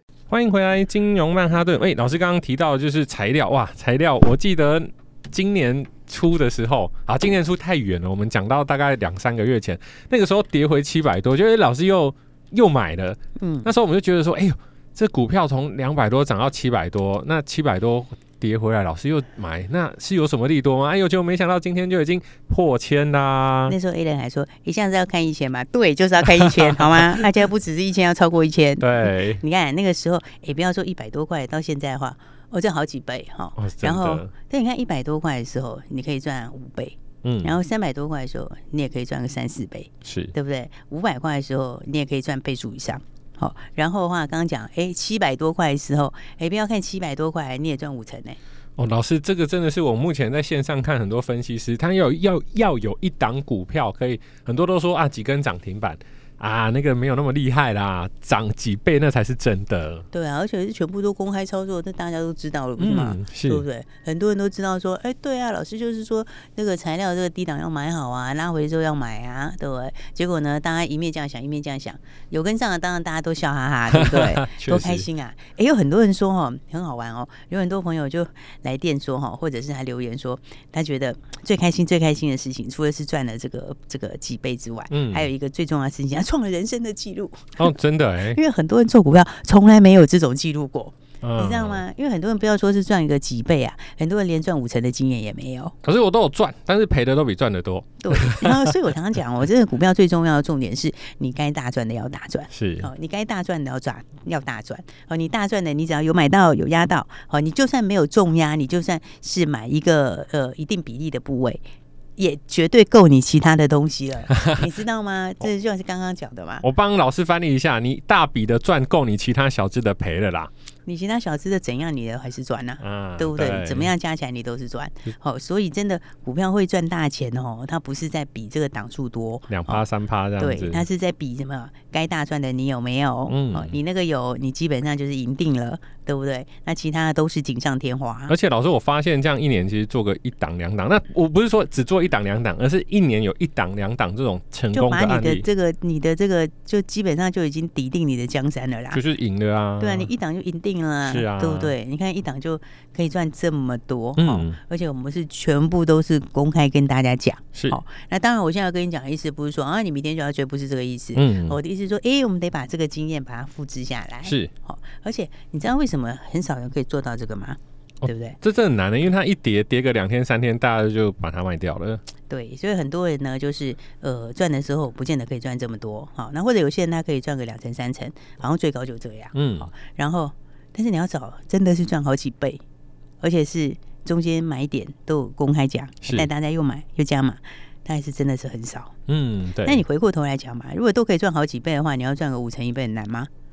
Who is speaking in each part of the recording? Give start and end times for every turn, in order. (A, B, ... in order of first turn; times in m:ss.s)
0:00.3-0:23.8 A
0:13.4-0:13.7 B
0:23.7-0:48.4 B
0:26.4-0:27.1 A
0:28.8-0:29.4 A
0:33.6-0:34.3 A
0:37.2-0:37.6 A
0:40.0-0:40.3 A
0:48.8-1:00.1 A
1:00.1-1:27.7 B
1:02.8-1:03.6 A
1:13.9-1:15.1 A
1:24.9-1:25.3 A
1:27.6-1:28.4 A
1:28.3-1:35.8 B
1:31.2-1:31.8 A
1:35.8-1:38.7 A
1:38.0-1:51.6 B
1:42.5-1:42.9 A
1:52.2-1:56.6 B
1:56.6-2:00.5 A
2:00.8-2:09.8 B
2:02.8-2:03.9 A
2:09.5-2:10.9 A
2:10.4-2:18.3 B
2:13.3-2:13.8 A
2:18.3-2:25.4 A
2:24.7-2:29.0 B
2:28.9-2:30.1 A
2:29.8-2:48.4 B
2:31.0-2:31.7 A
2:34.2-2:34.6 A
2:41.2-2:41.6 A
2:44.2-2:44.5 A
2:48.0-2:52.0 A
2:52.3-3:02.6 B
2:59.3-2:59.7 A
3:03.2-3:08.9 B
3:06.0-3:06.3 A
3:09.1-3:09.8 A
3:09.6-3:13.3 B